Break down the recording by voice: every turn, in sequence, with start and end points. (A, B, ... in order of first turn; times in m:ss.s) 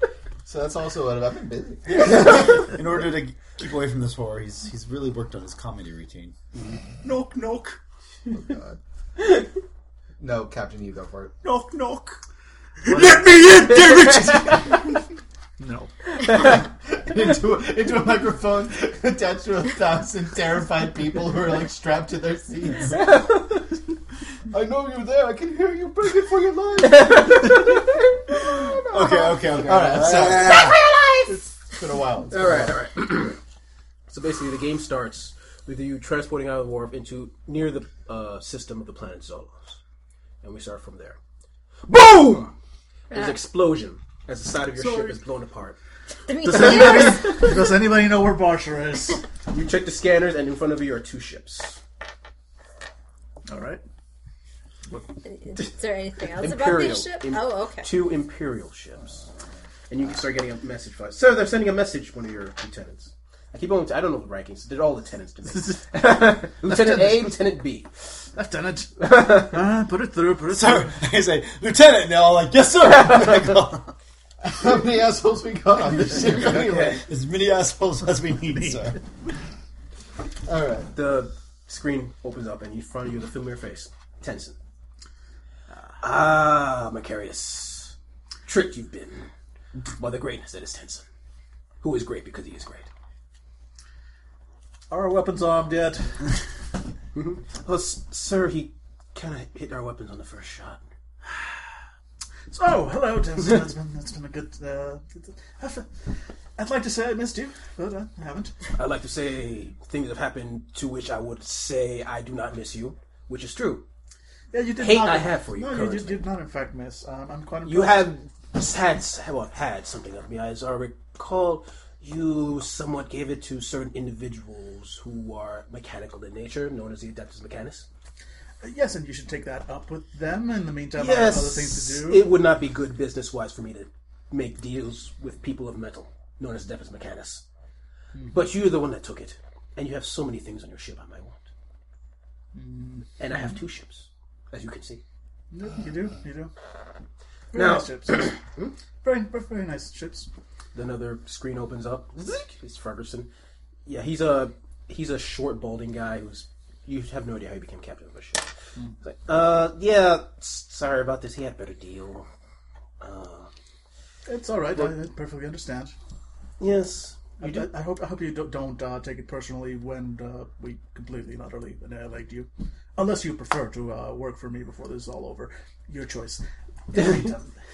0:00.4-0:03.1 A
0:02.6-0:06.3 B
0:07.0-0:07.8 B
0:08.3-0:08.8 A
0:10.2-0:11.4 A
0:11.4-0:12.2 B
0:12.8-0:14.8 B
0:12.8-0:13.5 C
0:15.6-0:15.9 C
0:16.4-0:23.2 A
0:22.9-0:23.6 D
0:24.5-0:30.8 A
0:26.9-0:28.1 D
0:28.9-0:30.7 B
0:30.4-0:30.9 E
0:31.7-0:32.8 A
0:32.3-0:33.4 D
0:34.1-0:39.8 D
0:40.4-0:41.2 D
0:41.9-0:42.4 D
0:41.9-0:42.5 C
0:43.1-0:43.4 E
0:43.1-0:45.8 D
0:44.8-0:45.2 C
0:46.3-0:47.4 E
0:46.4-0:49.2 C
0:46.5-0:47.6 D
0:49.5-0:51.8 D
0:53.5-0:53.8 C
0:55.2-0:57.9 E
0:56.3-0:59.2 D
0:59.9-1:07.9 D
1:05.5-1:05.8 C
1:08.3-1:11.0 C
1:09.0-1:09.6 D
1:10.5-1:13.9 B
1:14.4-1:17.0 A
1:16.4-1:17.0 D
1:16.9-1:19.0 B
1:18.5-1:19.0 C
1:20.4-1:20.9 A
1:20.9-1:24.6 D
1:26.0-1:27.9 D
1:28.4-1:29.3 D
1:30.0-1:31.0 D
1:31.8-1:32.9 D
1:34.9-1:36.4 C
1:37.1-1:40.8 D
1:41.2-1:41.8 C
1:42.5-1:48.6 C
1:48.8-1:53.8 D
1:54.5-1:58.0 C
1:54.8-1:56.2 D
1:57.6-2:07.9 D
2:08.6-2:12.2 C
2:11.0-2:17.4 D
2:18.1-2:18.4 C
2:18.3-2:21.4 D
2:22.5-2:23.6 C
2:23.2-2:25.0 D
2:25.5-2:26.5 C
2:27.5-2:28.3 C
2:27.5-2:28.7 D
2:29.0-2:30.3 C
2:30.7-2:33.3 D
2:33.8-2:38.5 D
2:39.0-2:42.3 D
2:43.0-2:43.5 D
2:44.3-2:45.9 C
2:46.6-2:47.7 D
2:47.4-2:57.5 C
2:56.9-2:57.3 D